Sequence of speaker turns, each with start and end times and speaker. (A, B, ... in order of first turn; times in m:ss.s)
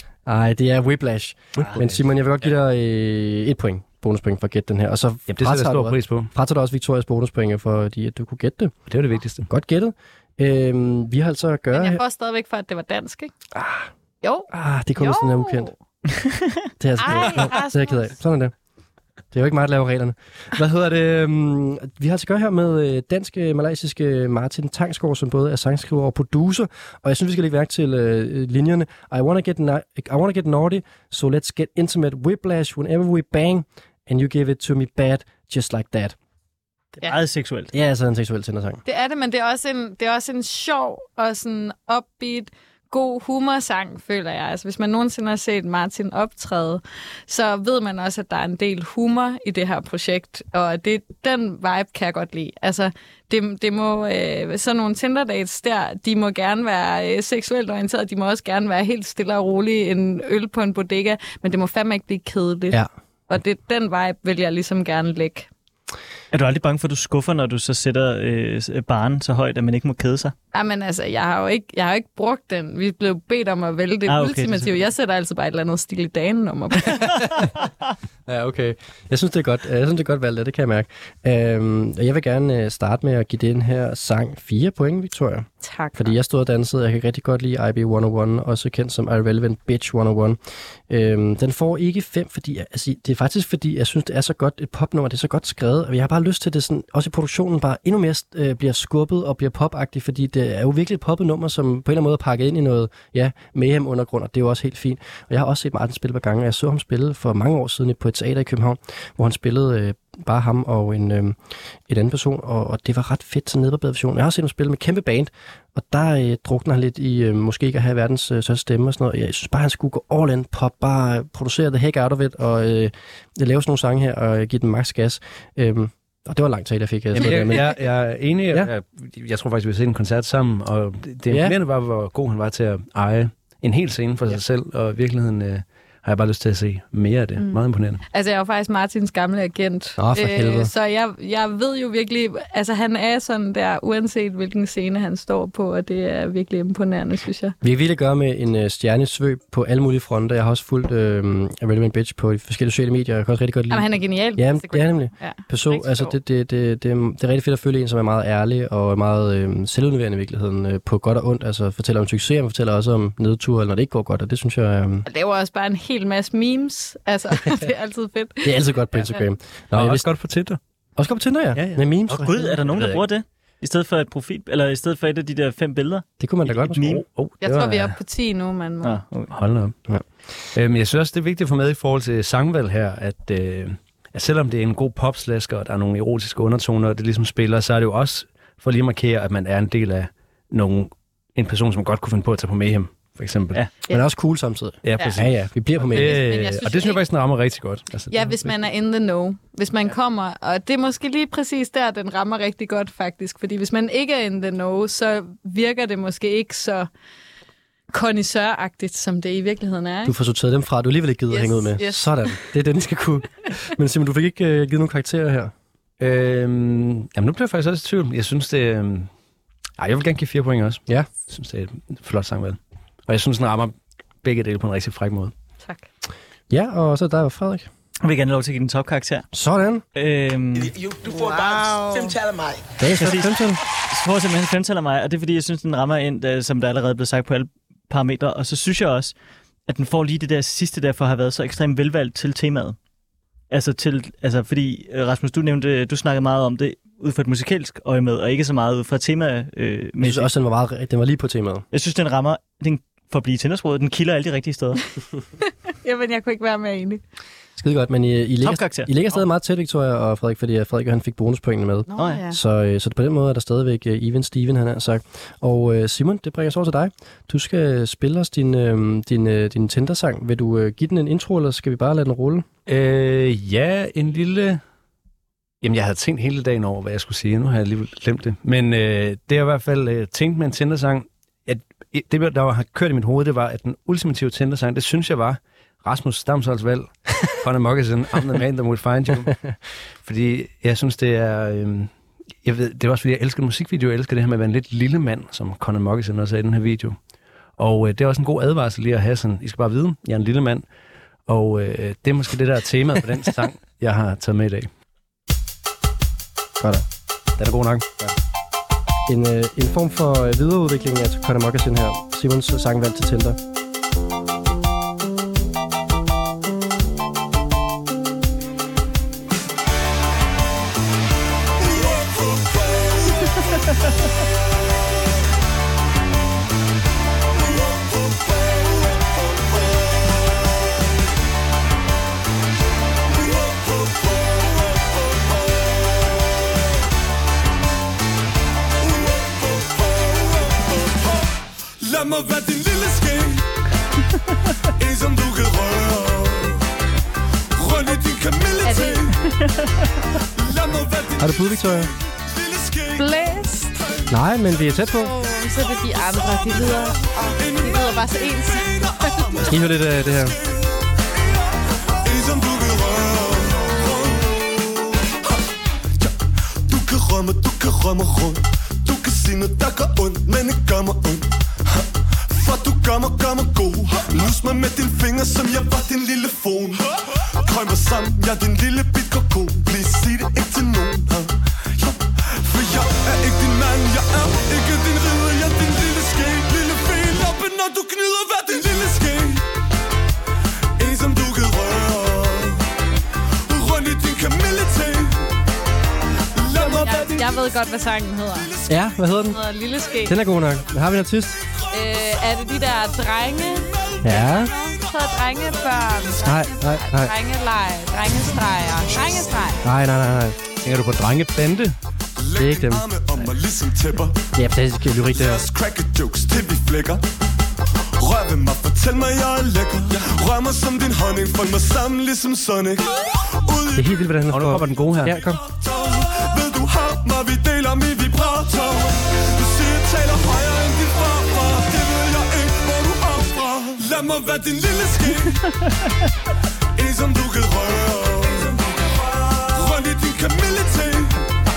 0:00.3-0:08.8 A
0:01.6-0:02.0 B
0:05.3-0:06.3 B
0:08.9-0:09.5 B
0:09.5-0:12.0 A
0:11.7-0:13.3 C
0:13.5-0:13.9 A
0:14.2-0:15.7 C
0:14.5-0:15.7 A
0:16.8-0:18.5 A
0:17.0-0:18.1 C
0:19.3-0:36.2 A
0:37.0-0:37.7 D
0:37.7-0:38.8 A
0:38.9-1:05.5 C
1:06.3-1:10.3 D
1:10.5-1:17.2 C
1:14.1-1:14.8 D
1:18.3-1:30.4 A
1:25.6-1:26.2 C
1:30.9-2:07.8 A
2:07.2-2:18.0 B
2:11.3-2:11.6 A
2:17.4-2:27.6 C
2:20.0-2:20.7 A
2:27.6-2:45.1 A
2:33.7-2:36.2 C
2:45.1-2:48.5 C
2:48.4-2:50.1 A
2:49.7-2:50.6 B
2:51.0-2:52.5 A
2:51.6-2:53.0 B
2:52.1-2:56.0 D
2:56.2-2:56.8 A
2:56.5-2:58.0 B
2:56.7-2:57.0 D
2:57.4-2:59.0 C
2:58.8-2:59.3 D
2:59.3-2:59.8 B
3:00.5-3:13.6 B
3:13.9-3:16.2 A
3:14.8-3:18.5 B
3:15.9-3:17.0 C
3:18.1-3:26.9 C
3:27.9-3:30.1 C
3:30.0-3:35.5 A
3:31.3-3:32.1 C
3:36.0-3:39.1 B
3:39.8-3:45.3 B
3:46.5-3:47.7 A
3:48.0-3:49.3 D
3:49.3-3:49.8 A
3:50.0-3:50.8 D
3:50.6-3:52.7 E
3:51.0-3:52.2 C
3:52.8-3:53.6 A
3:53.0-3:59.1 D
3:59.7-4:02.8 D
4:03.5-4:10.3 D
4:10.0-4:11.6 A
4:11.7-4:14.8 D
4:15.8-4:17.0 C
4:17.6-4:32.5 A
4:18.4-4:19.2 D
4:21.9-4:22.4 C
4:32.7-4:34.6 B
4:35.6-4:49.4 B
4:50.0-4:51.9 B
4:52.4-4:57.0 B
4:57.6-5:00.7 B
5:01.3-5:04.7 B
5:06.6-5:06.9 A
5:07.4-5:07.9 B
5:09.1-5:13.4 A
5:21.6-5:23.3 F
5:27.4-5:30.5 F
5:33.1-5:36.2 F
5:38.8-5:43.5 F
5:44.8-5:46.6 F
5:47.6-5:49.2 F
5:48.6-5:49.0 C
5:49.4-5:49.7 D
5:50.4-5:53.1 F
5:51.2-5:51.9 A
5:53.0-5:53.8 C
5:54.1-5:55.1 A
5:55.0-5:59.3 C
5:57.3-6:00.8 F
5:59.4-6:00.4 A
6:02.0-6:05.4 F
6:06.0-6:29.4 F
6:30.8-6:32.7 F
6:33.5-6:35.2 F
6:36.4-6:37.4 F
6:36.5-6:38.5 C
6:38.7-6:39.4 A
6:39.3-6:40.2 C
6:40.1-6:41.4 A
6:41.7-6:43.8 C
6:44.0-6:44.5 A
6:44.4-6:49.6 C
6:46.2-6:47.1 A
6:48.8-6:49.2 F
6:49.6-6:50.4 A
6:50.6-6:51.8 B
6:52.2-6:54.3 F
6:52.4-6:52.9 A
6:54.4-6:55.4 A
6:55.1-6:57.1 F
6:58.0-7:03.9 F
7:03.8-7:05.4 A
7:04.3-7:05.2 B
7:05.2-7:15.4 F
7:16.8-7:21.2 F